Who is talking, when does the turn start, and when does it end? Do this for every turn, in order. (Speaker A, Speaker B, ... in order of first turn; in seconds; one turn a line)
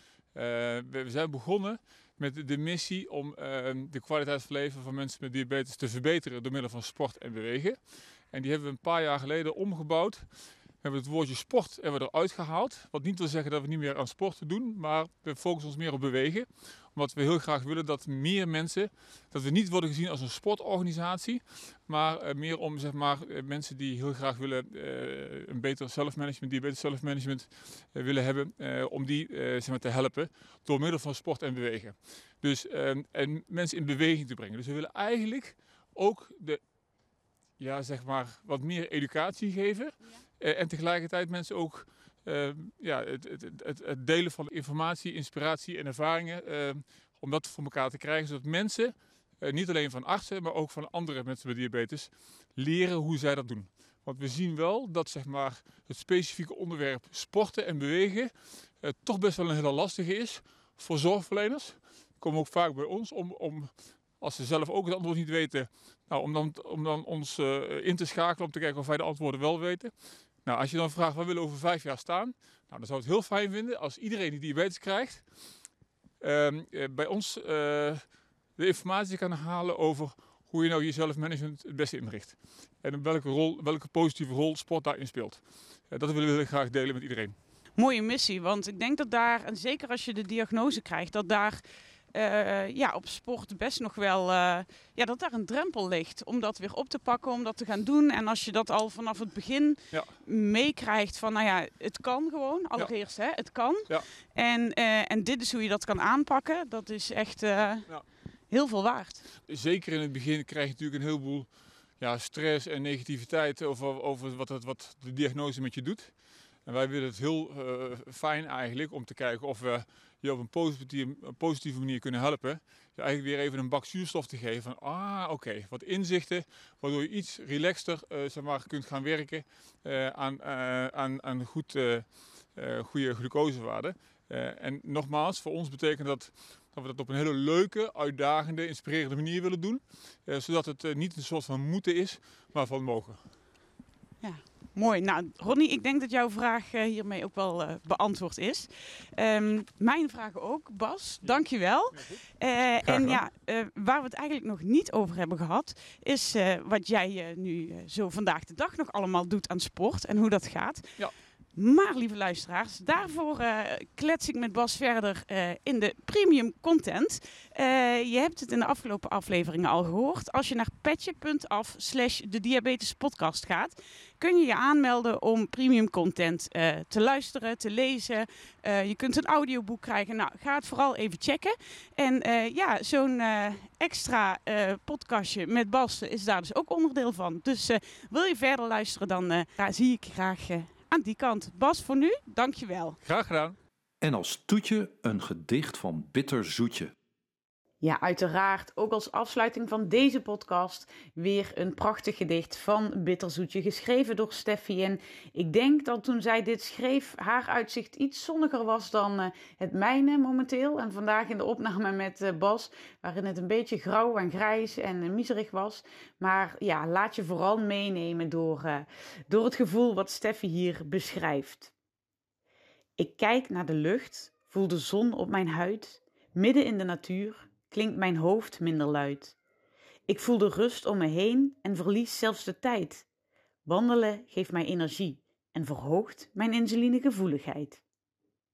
Speaker A: 0.3-7.8
Speaker A: 8.3-10.2
Speaker A: 10.8-36.6
Speaker A: 37.6-69.9
Speaker A: 70.4-75.2
Speaker A: 76.2-78.0
Speaker A: 78.6-87.3
Speaker B: 87.8-91.6
Speaker B: 92.1-107.9
Speaker A: 99.9-100.2
Speaker B: 108.5-109.2
Speaker A: 109.5-111.5
Speaker A: 112.0-116.1
Speaker A: 116.7-143.2
Speaker B: 144.2-160.9
Speaker A: 151.9-152.2
Speaker A: 152.8-153.2
Speaker B: 161.5-193.0
Speaker A: 193.0-193.6
Speaker C: 194.0-196.9
Speaker B: 197.8-221.7
Speaker B: 223.0-229.3
Speaker B: 230.1-233.1
Speaker B: 233.7-237.8